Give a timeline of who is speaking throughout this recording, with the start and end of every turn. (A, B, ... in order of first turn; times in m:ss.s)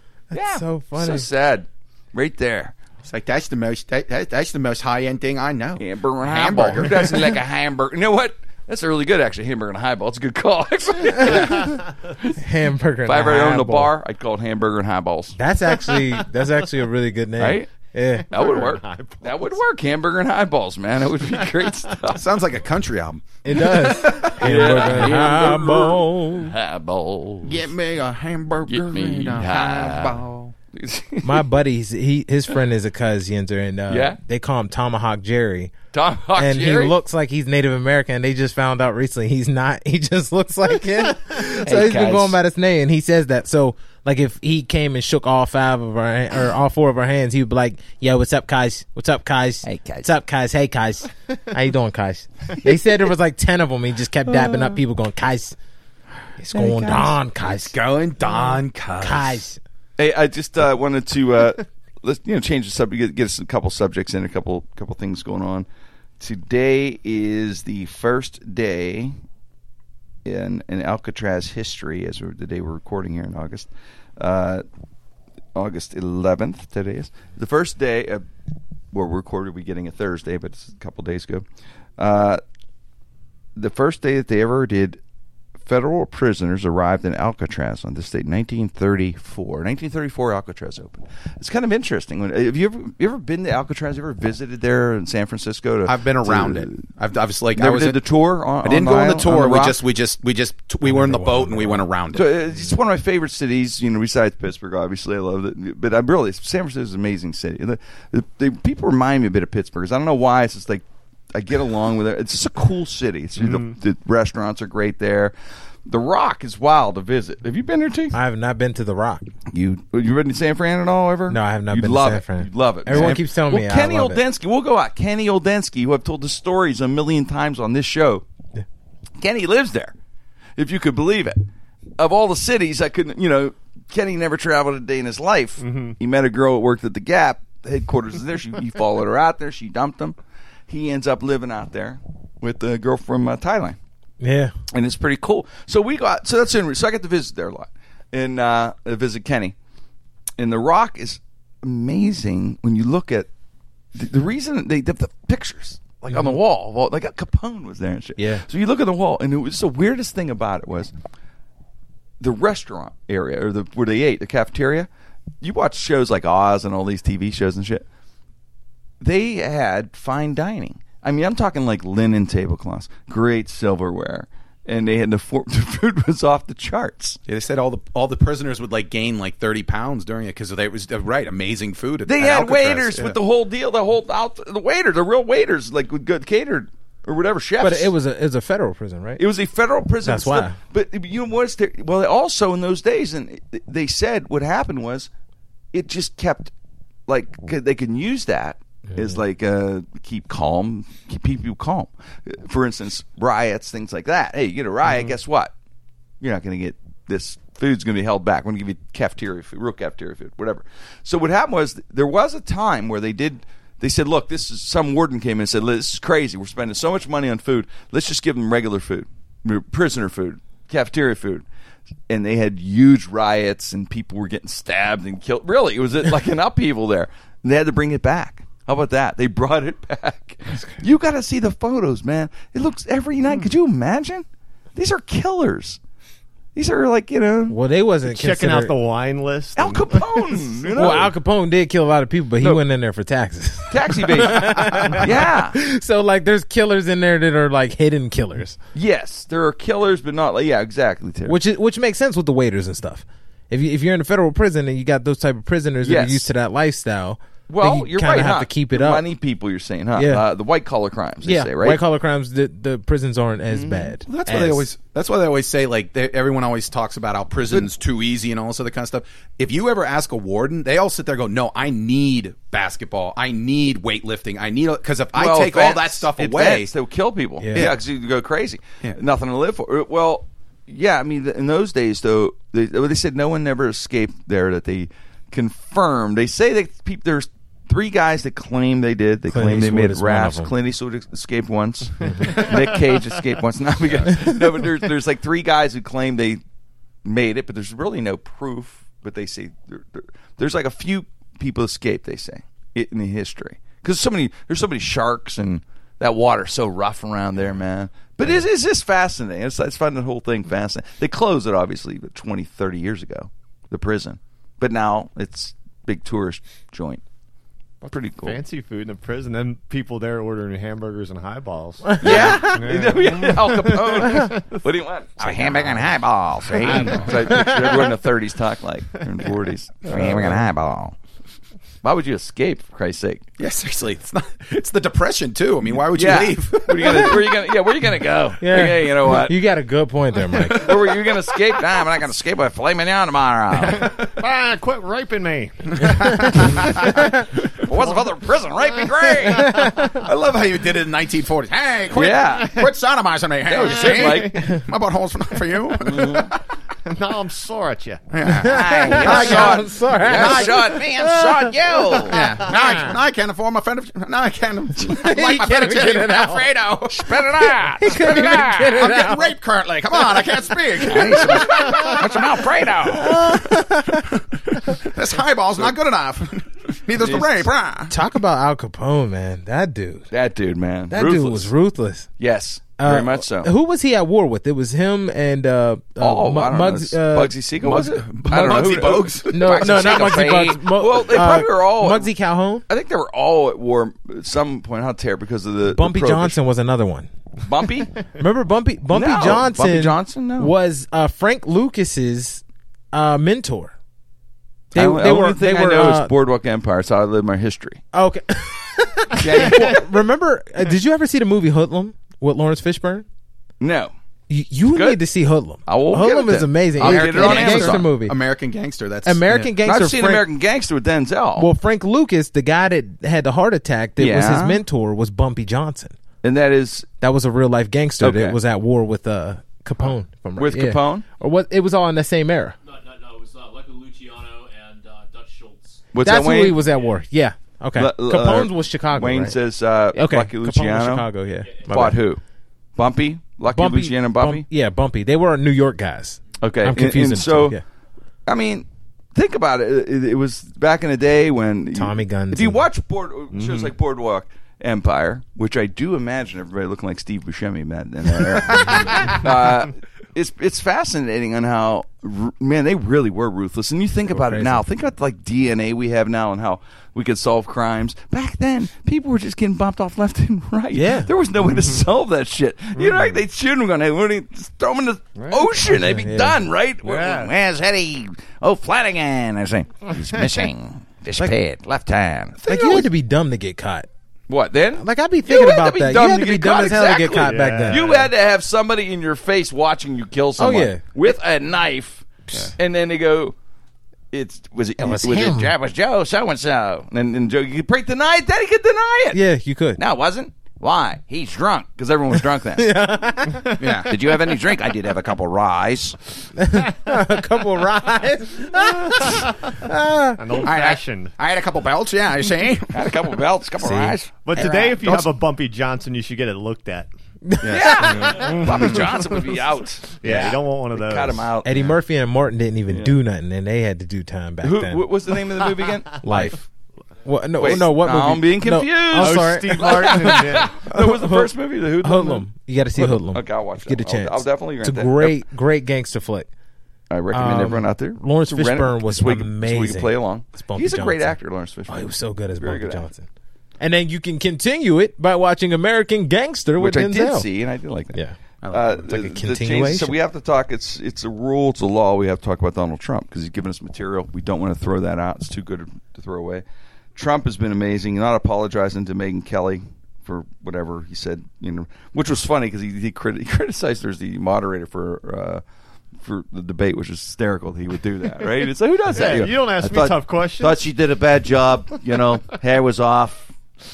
0:00.3-0:02.8 A
0:00.3-0:01.3 B
0:03.0-0:07.4 C
0:05.8-0:12.4 A
0:12.4-0:13.9 B
0:13.0-0:15.4 A
0:15.4-0:18.3 B
0:15.9-0:16.2 D
0:17.4-0:17.7 A
0:18.3-0:19.4 D
0:18.3-0:22.3 A
0:22.1-0:25.2 C
0:23.4-0:26.5 B
0:24.1-0:27.7 A
0:27.4-0:30.5 C
0:28.7-0:31.5 A
0:31.2-0:35.7 B
0:33.9-0:34.2 A
0:35.9-0:37.0 A
0:36.4-0:55.6 B
0:41.6-0:42.4 A
0:49.6-0:50.1 A
0:54.3-0:54.8 A
0:56.4-0:57.7 B
0:56.5-0:57.2 A
0:56.9-0:59.4 C
0:59.0-0:59.6 B
1:00.0-1:05.7 A
1:06.2-1:09.2 A
1:10.2-1:14.6 A
1:15.6-1:18.2 A
1:18.9-1:21.5 A
1:22.0-1:22.4 A
1:23.6-1:25.0 A
1:25.6-1:36.8 A
1:35.8-1:38.0 C
1:37.6-1:39.8 A
1:38.6-1:42.3 C
1:40.9-1:41.8 B
1:42.1-1:55.3 A
1:53.4-1:53.7 D
1:55.9-1:58.2 A
1:58.1-1:59.2 B
1:59.5-2:08.2 A
2:01.3-2:04.2 B
2:09.2-2:10.0 A
2:10.6-2:11.4 A
2:12.0-2:20.2 A
2:15.6-2:16.0 D
2:20.7-2:23.8 A
2:24.2-2:24.5 B
2:24.7-2:29.6 A
2:30.4-2:33.3 A
2:33.9-2:40.9 A
2:38.2-2:38.4 B
2:42.2-2:44.9 A
2:45.4-2:47.9 A
2:49.0-2:57.2 A
2:57.3-3:03.2 C
3:02.1-3:07.9 A
3:07.6-3:09.2 B
3:09.2-3:15.1 A
3:10.0-3:10.6 B
3:15.7-3:16.5 A
3:17.1-3:25.5 A
3:18.9-3:19.2 B
3:26.2-3:41.5 A
3:42.1-3:55.8 A
3:56.6-3:57.6 A
3:57.5-3:58.8 B
3:58.0-4:00.3 D
3:59.6-4:01.1 A
4:00.7-4:08.6 B
4:03.7-4:05.6 A
4:08.7-4:11.4 A
4:11.3-4:19.1 B
4:15.8-4:16.3 A
4:17.5-4:21.8 A
4:20.0-4:20.2 B
4:21.2-4:24.7 B
4:23.5-4:24.0 A
4:24.1-4:36.7 C
4:35.2-4:56.4 A
4:37.4-4:37.7 B
4:49.3-4:50.5 B
4:52.0-4:52.4 B
4:57.0-5:17.0 A
5:17.8-5:18.4 A
5:18.2-5:24.4 D
5:21.9-5:22.6 B
5:22.0-5:31.0 A
5:26.6-5:27.1 D
5:27.3-5:27.7 B
5:30.0-5:30.3 B
5:31.8-5:33.2 A
5:33.4-5:37.2 C
5:35.8-5:39.4 A
5:38.4-5:40.7 B
5:40.5-5:43.9 A
5:43.6-5:46.9 D
5:46.1-5:46.7 C
5:47.5-5:49.5 A
5:49.4-5:49.8 B
5:49.9-5:56.4 C
5:51.9-5:52.6 A
5:53.5-5:54.4 A
5:53.8-5:54.4 D
5:55.8-5:56.3 A
5:56.8-5:58.0 D
5:58.1-5:59.6 C
5:58.4-6:01.5 B
5:58.4-6:02.2 A
6:00.2-6:00.4 C
6:02.1-6:17.9 C
6:04.8-6:06.5 B
6:06.8-6:08.8 A
6:07.8-6:09.3 B
6:10.8-6:13.3 A
6:13.0-6:14.1 B
6:17.0-6:17.5 A
6:17.9-6:20.1 B
6:20.1-6:21.5 A
6:20.9-6:22.1 B
6:22.2-6:23.5 A
6:22.8-6:27.3 B
6:26.0-6:32.1 A
6:27.6-6:30.1 C
6:29.3-6:32.6 B
6:32.7-6:36.4 A
6:35.7-6:37.1 B
6:37.4-6:37.9 A
6:38.2-6:42.4 B
6:38.9-6:40.5 A
6:42.9-6:43.7 B
6:44.7-6:47.8 A
6:44.7-6:46.1 B
6:47.9-6:53.0 B
6:49.2-6:49.8 A
6:49.2-6:49.8 C
6:53.6-6:53.9 A
6:54.3-6:58.2 B
6:54.7-6:55.0 A
6:55.7-6:57.9 A
6:56.8-6:59.5 C
6:59.0-7:00.2 B
6:59.4-7:01.5 A
7:01.4-7:06.0 B
7:04.0-7:04.6 A
7:06.2-7:06.9 A
7:07.0-7:12.6 B
7:08.0-7:08.4 A
7:10.4-7:11.0 A
7:12.7-7:15.8 E
7:15.9-7:16.6 A
7:16.0-7:19.4 B
7:17.8-7:21.1 A
7:19.9-7:22.0 B
7:21.7-7:22.2 A
7:22.8-7:24.5 A
7:23.5-7:27.6 B
7:26.4-7:27.6 A
7:28.3-8:02.8 A
7:31.7-7:32.6 B
7:33.3-7:33.7 D
7:44.1-7:44.6 B
7:50.7-7:51.1 B
7:51.4-7:51.8 D
7:52.8-7:53.2 D
7:55.2-7:55.5 D
7:55.7-7:56.4 B
7:56.8-7:57.3 D
8:02.4-8:02.8 C
8:02.5-8:03.9 B
8:04.3-8:13.4 A
8:04.8-8:07.8 B
8:07.2-8:08.1 D
8:10.4-8:10.8 B
8:14.1-8:19.2 A
8:14.8-8:15.5 B
8:19.1-8:19.8 B
8:19.8-8:22.8 A
8:22.6-8:23.7 B
8:23.6-8:23.9 C
8:23.8-8:26.0 A
8:26.4-8:30.2 B
8:30.2-8:31.1 D
8:30.4-8:32.9 C
8:32.7-8:34.7 A
8:33.6-8:33.9 B
8:34.2-8:36.9 D
8:34.4-8:35.1 C
8:37.3-8:37.8 B
8:37.4-8:38.5 C
8:37.4-8:41.7 A
8:38.0-8:38.9 D
8:40.0-8:41.7 D
8:41.4-8:44.9 B
8:42.7-8:43.0 A
8:44.4-8:46.4 A
8:46.0-8:46.4 B
8:47.0-8:51.3 B
8:47.4-8:55.2 A
8:49.0-8:50.6 D
8:51.8-8:56.3 B
8:56.9-9:02.9 A
8:57.1-9:03.1 B
9:03.6-9:07.3 B
9:06.6-9:08.0 A
9:08.4-9:08.7 C
9:08.5-9:25.4 A
9:08.7-9:10.0 B
9:26.0-9:33.4 A
9:28.9-9:30.7 D